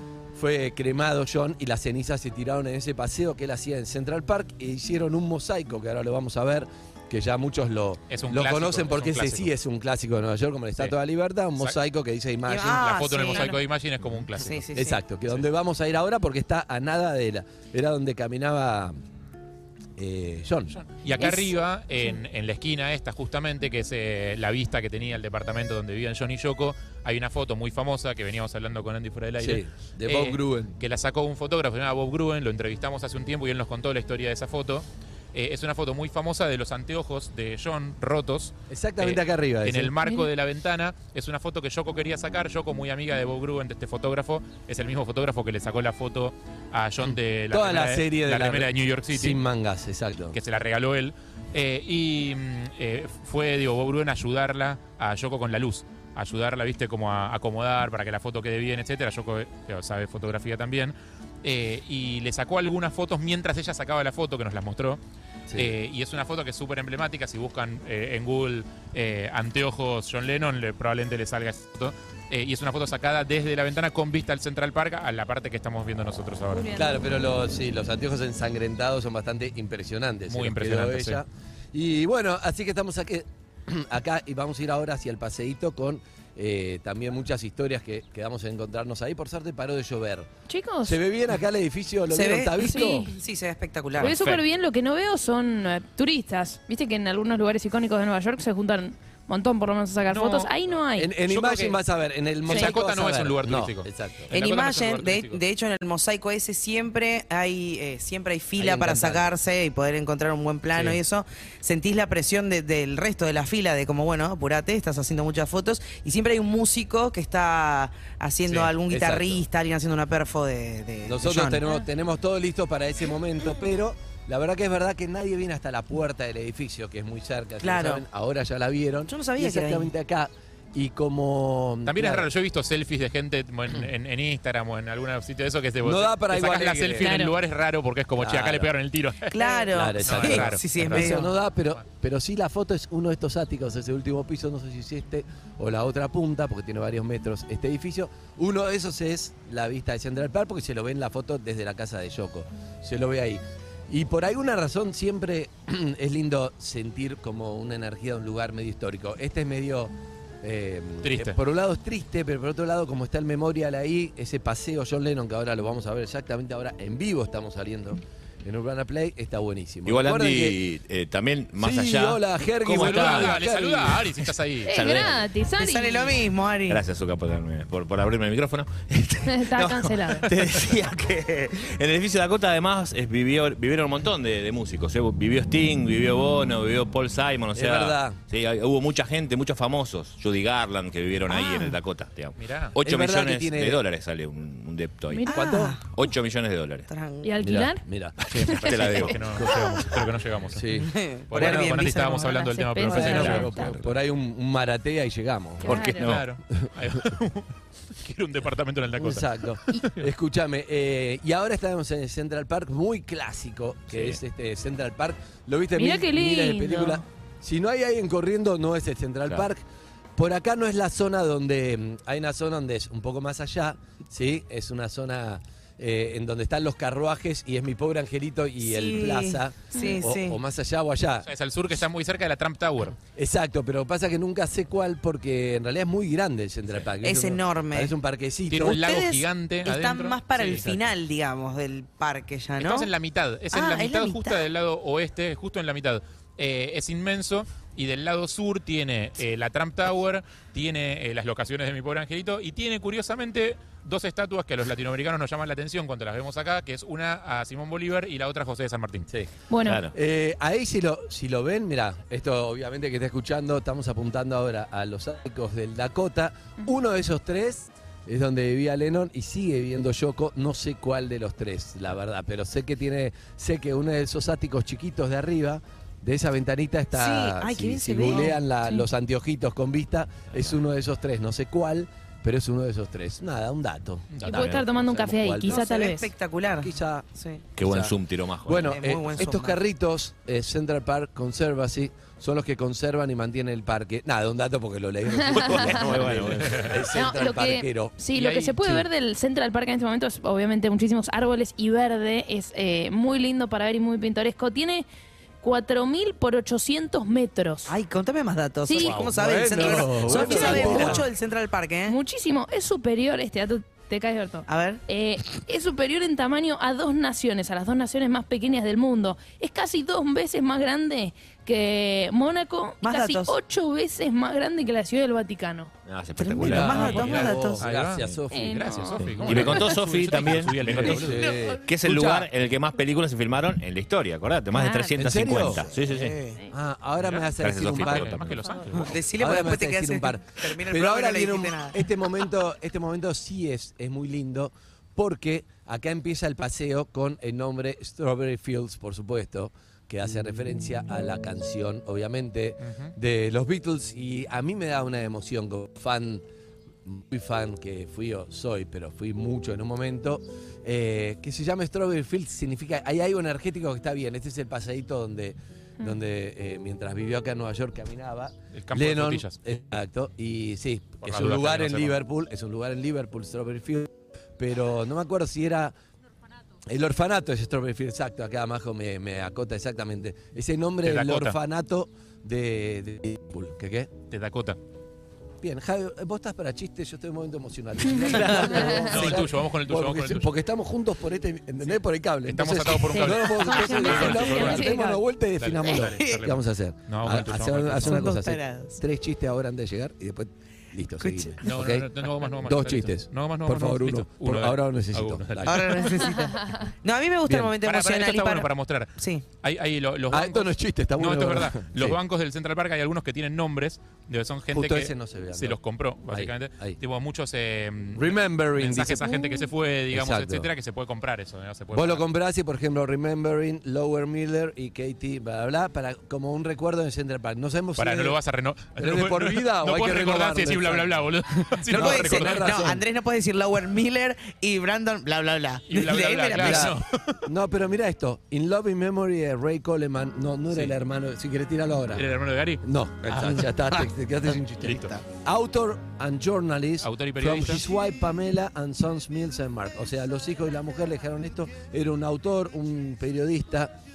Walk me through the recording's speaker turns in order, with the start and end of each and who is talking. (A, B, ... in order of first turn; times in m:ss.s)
0:00.3-0:13.0 A
0:08.1-0:09.5 B
0:12.5-0:13.6 C
0:12.8-0:14.6 B
0:14.4-0:15.0 C
0:14.7-0:19.0 A
0:20.0-0:20.7 A
0:20.7-0:49.4 B
0:29.4-0:30.8 A
0:38.7-0:39.9 A
0:47.0-0:50.4 A
0:50.3-1:05.0 B
1:05.5-1:05.8 A
1:05.6-1:16.7 B
1:16.5-1:16.9 D
1:16.8-1:30.3 A
1:20.3-1:21.2 B
1:30.5-1:31.0 D
1:30.8-1:33.1 A
1:32.1-1:34.1 C
1:32.6-1:33.1 D
1:34.0-1:34.4 B
1:34.0-1:41.1 D
1:40.1-1:40.5 B
1:41.0-1:44.3 A
1:41.3-1:41.8 B
1:42.5-1:45.4 B
1:44.3-2:01.6 C
1:48.6-1:49.3 A
1:58.5-1:58.7 B
1:58.9-1:59.4 A
2:01.1-2:12.3 A
2:07.6-2:08.0 C
2:09.1-2:09.9 C
2:11.9-2:21.8 B
2:15.8-2:17.2 A
2:17.0-2:17.3 D
2:18.2-2:18.7 A
2:19.3-2:21.2 C
2:19.5-2:50.6 A
2:41.0-2:41.4 B
2:49.9-2:53.4 E
2:51.6-2:54.1 A
2:52.7-2:55.0 B
2:54.7-2:56.2 D
2:54.7-2:55.2 E
2:55.6-2:56.8 C
2:56.7-3:15.3 E
2:59.3-3:00.3 D
3:07.5-3:08.2 A
3:12.4-3:12.8 B
3:12.8-3:13.8 A
3:15.3-3:15.8 A
3:15.3-3:15.8 C
3:15.9-3:16.9 E
3:16.9-3:17.3 C
3:17.2-3:17.8 D
3:17.4-3:18.3 A
3:18.4-3:23.6 B
3:18.4-3:19.2 E
3:19.3-3:19.8 A
3:20.5-3:21.8 A
3:20.8-3:22.2 C
3:22.0-3:23.7 D
3:22.8-3:26.6 A
3:25.6-3:26.1 D
3:26.0-3:26.2 E
3:26.0-3:27.5 B
3:28.0-3:29.3 B
3:29.0-3:39.6 A
3:35.8-3:37.0 D
3:40.2-3:51.3 A
3:48.6-3:50.4 C
3:49.7-3:50.0 D
3:51.2-3:53.0 B
3:53.1-3:58.8 A
3:57.0-3:57.9 C
3:58.5-4:00.7 B
3:58.6-4:02.9 C
4:00.4-4:00.8 A
4:02.6-4:19.1 B
4:03.5-4:04.4 C
4:19.5-4:19.8 D
4:19.7-4:19.9 E
4:19.9-4:45.7 A
4:36.9-4:38.4 C
4:38.2-4:38.8 D
4:44.1-4:44.5 B
4:44.2-4:46.1 D
4:45.5-4:47.4 C
4:46.6-4:47.1 A
4:47.6-4:48.8 E
4:47.6-4:58.0 A
4:48.7-4:49.6 C
4:55.5-4:56.7 E
4:56.9-5:04.9 D
4:58.2-4:58.8 B
5:05.4-5:07.7 D
5:07.7-5:12.0 C
5:08.7-5:11.0 D
5:08.8-5:11.1 A
5:11.9-5:25.7 D
5:14.5-5:14.8 C
5:22.8-5:23.3 C
5:25.9-5:27.1 E
5:26.2-5:27.6 C
5:26.4-5:29.6 A
5:26.7-5:31.3 B
5:28.3-5:29.0 D
5:29.2-5:36.2 E
5:30.7-5:32.3 A
5:34.6-5:35.0 D
5:35.0-5:35.7 A
5:35.9-5:36.4 C
5:36.5-5:38.2 A
5:37.0-5:38.9 B
5:37.4-5:38.5 E
5:38.7-5:41.8 C
5:39.2-5:56.2 A
5:52.6-5:52.9 B
5:56.8-6:15.7 A
6:08.6-6:09.4 B
6:11.0-6:12.0 B
6:16.7-6:23.9 A
6:20.8-6:21.4 B
6:24.1-6:24.6 B
6:25.4-6:45.8 A
6:27.9-6:28.9 D
6:28.7-6:30.3 B
6:32.3-6:34.8 B
6:32.9-6:35.0 D
6:35.4-6:38.1 B
6:35.8-6:36.1 C
6:37.8-6:38.8 C
6:41.0-6:41.4 C
6:41.4-6:45.9 B
6:45.5-6:49.2 C
6:46.3-6:46.7 D
6:47.3-6:47.5 A
6:47.6-7:02.0 B
6:50.1-6:52.0 A
6:54.5-6:55.6 A
6:56.1-6:56.8 A
6:58.0-6:59.4 A
6:59.9-7:00.5 A
7:01.7-7:08.2 A
7:07.8-7:12.7 B
7:08.8-7:10.9 A
7:11.7-7:12.8 A
7:11.7-7:16.7 C
7:15.7-7:17.2 B
7:16.4-7:22.1 A
7:21.9-7:23.4 B
7:22.6-7:33.8 A
7:24.4-7:25.0 B
7:24.7-7:25.0 C
7:26.8-7:27.7 B